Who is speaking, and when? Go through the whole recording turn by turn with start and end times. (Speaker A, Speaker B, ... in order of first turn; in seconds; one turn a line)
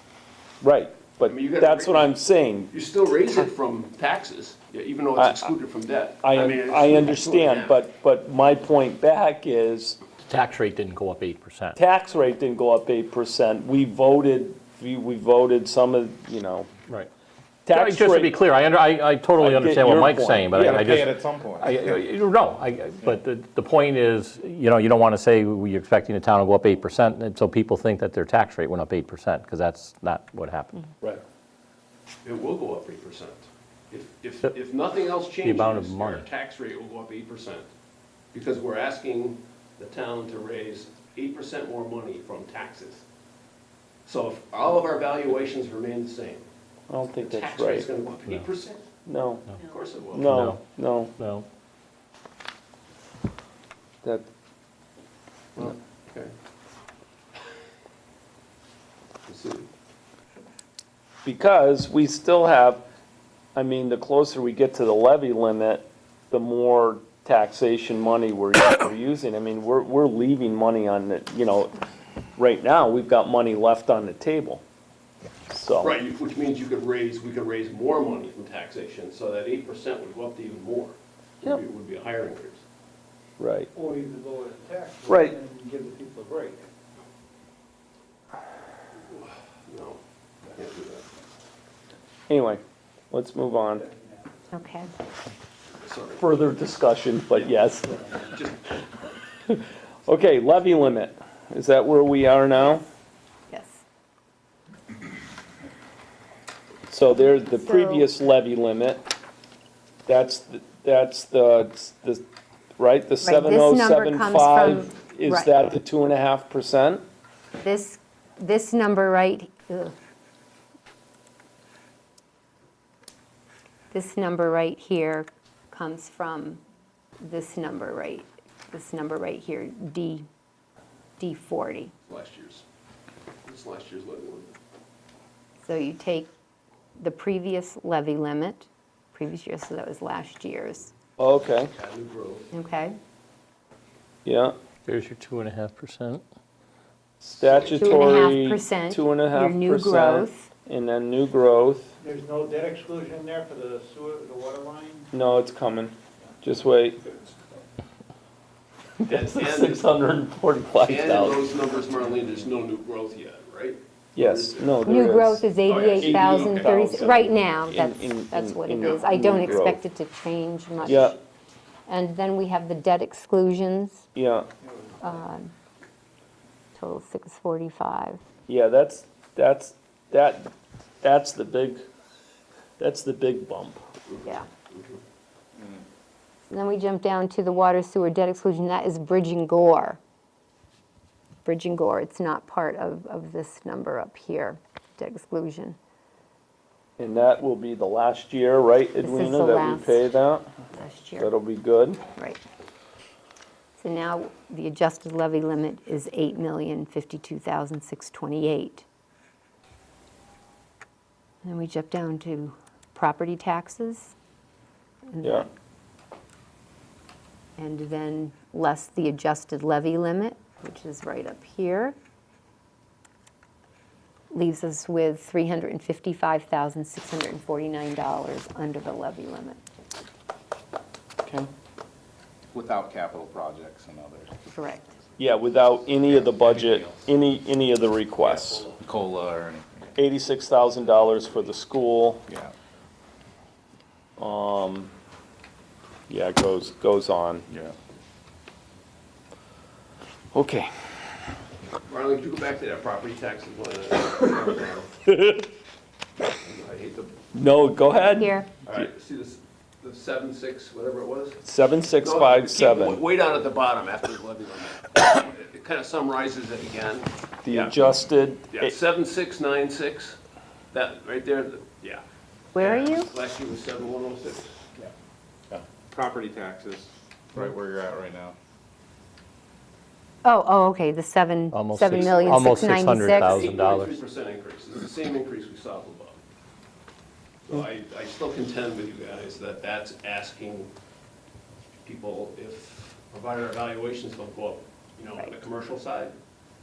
Speaker A: 0.6-2.7
Speaker B: 1.2-2.1
Speaker B: 2.7-7.8
Speaker A: 5.2-5.5
Speaker A: 6.2-10.0
Speaker C: 10.3-11.8
Speaker A: 11.7-16.7
Speaker A: 17.6-18.3
Speaker C: 17.7-30.9
Speaker A: 19.4-20.8
Speaker D: 20.5-21.8
Speaker B: 32.2-37.7
Speaker C: 35.4-36.2
Speaker B: 38.3-43.0
Speaker B: 44.0-46.5
Speaker A: 46.9-47.9
Speaker B: 47.2-48.8
Speaker A: 49.0-49.5
Speaker B: 49.6-50.4
Speaker A: 50.1-51.1
Speaker C: 50.3-50.6
Speaker C: 51.2-51.5
Speaker A: 54.0-54.3
Speaker B: 55.5-56.3
Speaker B: 59.2-59.7
Speaker A: 61.2-62.8
Speaker A: 63.5-71.7
Speaker A: 72.3-74.6
Speaker A: 75.5-76.0
Speaker B: 75.8-82.6
Speaker A: 83.4-83.7
Speaker E: 83.7-86.7
Speaker A: 85.1-85.3
Speaker B: 89.1-91.1
Speaker A: 92.3-93.8
Speaker E: 93.9-94.3
Speaker F: 94.5-94.9
Speaker B: 95.8-96.2
Speaker A: 96.2-98.0
Speaker B: 98.2-98.6
Speaker A: 99.5-102.8
Speaker F: 103.5-103.8
Speaker A: 106.9-109.1
Speaker F: 107.5-108.1
Speaker A: 110.1-112.2
Speaker A: 112.8-117.0
Speaker F: 113.2-115.5
Speaker F: 117.6-119.9
Speaker F: 123.9-126.6
Speaker F: 127.2-130.2
Speaker F: 131.2-131.9
Speaker B: 132.1-132.6
Speaker B: 133.4-134.5
Speaker F: 135.6-136.3
Speaker F: 137.0-140.9
Speaker A: 141.2-141.7
Speaker B: 141.7-142.5
Speaker F: 142.5-142.9
Speaker A: 144.2-144.6
Speaker C: 144.8-146.2
Speaker A: 147.2-151.9
Speaker B: 147.4-148.1
Speaker F: 147.8-150.5
Speaker E: 152.0-155.1
Speaker A: 155.1-157.0
Speaker A: 159.0-161.5
Speaker B: 159.0-159.8
Speaker B: 160.8-165.0
Speaker A: 164.1-169.8
Speaker F: 164.8-171.2
Speaker B: 165.7-167.3
Speaker A: 170.8-171.1
Speaker F: 171.9-174.1
Speaker A: 174.1-174.5
Speaker F: 175.0-175.5
Speaker F: 176.8-178.2
Speaker A: 178.5-180.5
Speaker A: 181.0-181.8
Speaker A: 182.8-183.8
Speaker B: 184.1-185.0
Speaker D: 185.6-185.8
Speaker F: 186.5-190.0
Speaker F: 191.4-195.8
Speaker A: 197.0-200.5
Speaker F: 199.0-200.0
Speaker F: 200.7-201.3
Speaker A: 201.2-202.0
Speaker F: 203.8-208.8
Speaker F: 211.4-214.1
Speaker F: 215.1-215.5
Speaker F: 217.6-221.9
Speaker F: 224.3-229.6
Speaker D: 232.5-234.4
Speaker F: 234.5-234.9
Speaker A: 235.2-238.7
Speaker D: 236.1-237.1
Speaker D: 238.2-239.9
Speaker A: 240.0-242.2
Speaker D: 242.3-242.5
Speaker A: 244.2-244.9
Speaker A: 246.1-247.5
Speaker A: 250.3-250.7
Speaker B: 251.9-255.0
Speaker B: 256.4-257.1
Speaker A: 257.3-258.8
Speaker F: 258.0-258.5
Speaker B: 258.6-261.4
Speaker A: 261.4-263.0
Speaker B: 262.0-267.8
Speaker A: 267.4-268.7
Speaker B: 268.5-270.2
Speaker B: 270.7-272.0
Speaker F: 272.5-273.1
Speaker B: 272.6-274.5
Speaker D: 275.5-278.4
Speaker F: 280.2-283.4
Speaker C: 281.5-283.9
Speaker B: 281.9-286.2
Speaker B: 287.5-290.7
Speaker B: 291.8-296.1